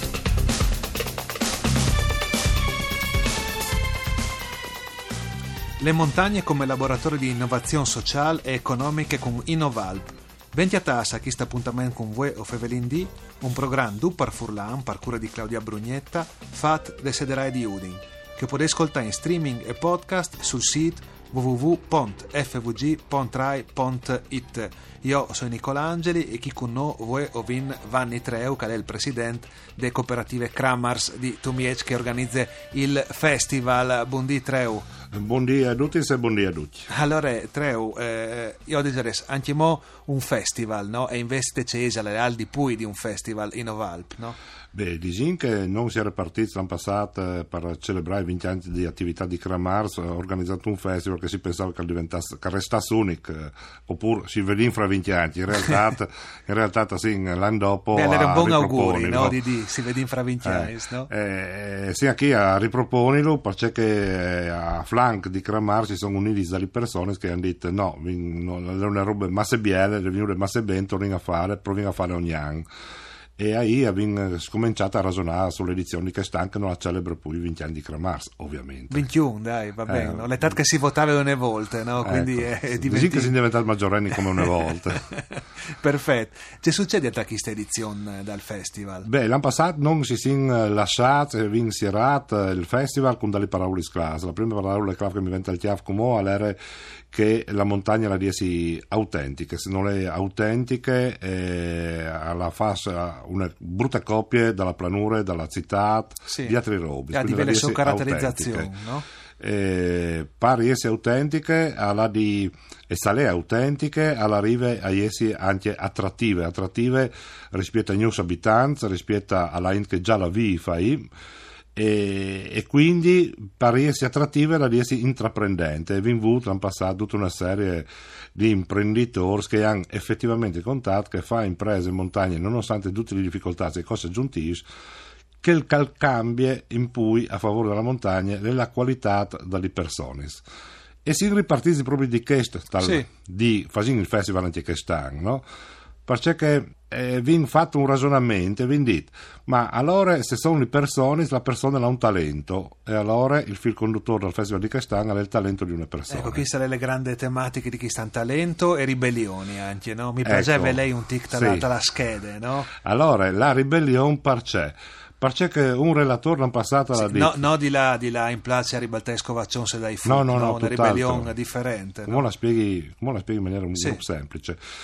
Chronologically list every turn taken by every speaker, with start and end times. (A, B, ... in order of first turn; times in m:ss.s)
0:05.8-0:34.9 A
0:35.1-0:36.9 B
0:36.9-0:44.4 A
0:44.7-0:59.4 B
0:57.9-1:01.1 A
1:00.4-1:12.7 B
1:13.4-1:19.1 B
1:18.9-1:23.3 A
1:19.9-1:20.5 B
1:22.0-1:25.0 B
1:25.0-1:29.1 A
1:29.0-1:36.6 B
1:37.1-1:48.7 B
1:46.3-1:46.6 A
1:47.1-1:49.0 A
1:49.4-2:01.1 B
2:01.7-2:14.6 B
2:15.4-2:20.4 B
2:21.0-2:25.4 B
2:22.8-2:23.0 A
2:26.0-2:36.4 B
2:36.1-2:42.7 A
2:40.2-2:41.7 B
2:42.8-2:47.5 B
2:46.9-2:52.2 A
2:50.0-2:51.3 B
2:52.1-2:54.6 B
2:53.7-2:54.0 A